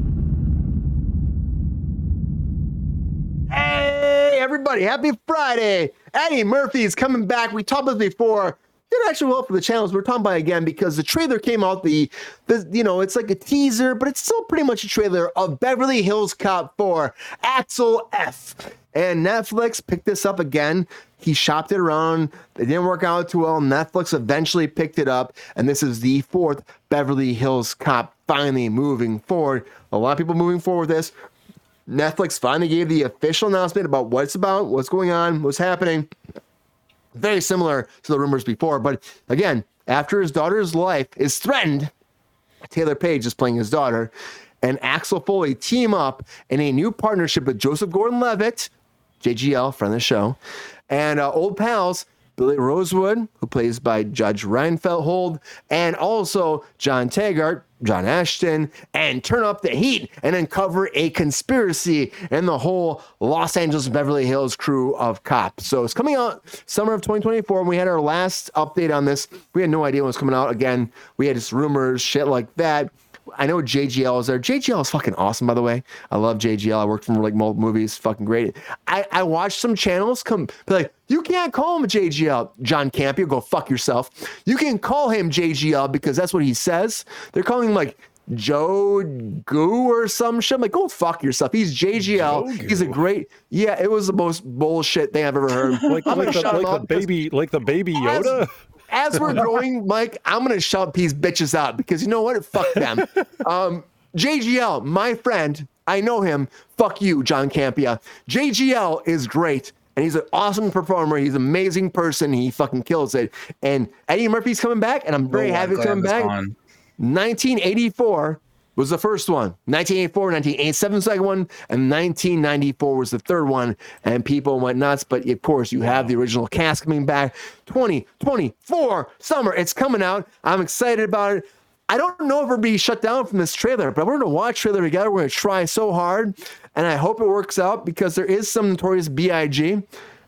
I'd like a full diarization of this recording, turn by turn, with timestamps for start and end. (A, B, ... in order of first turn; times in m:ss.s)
0:03.5-0:31.1 A
0:31.9-0:36.1 A
0:37.2-0:41.9 A
0:42.7-0:48.7 A
0:49.2-0:50.4 A
0:50.9-1:37.1 A
1:32.0-1:33.0 B
1:35.7-1:36.7 C
1:35.9-1:38.5 B
1:38.0-1:56.3 A
1:39.1-1:39.5 B
1:55.3-1:56.5 C
1:57.0-2:19.8 A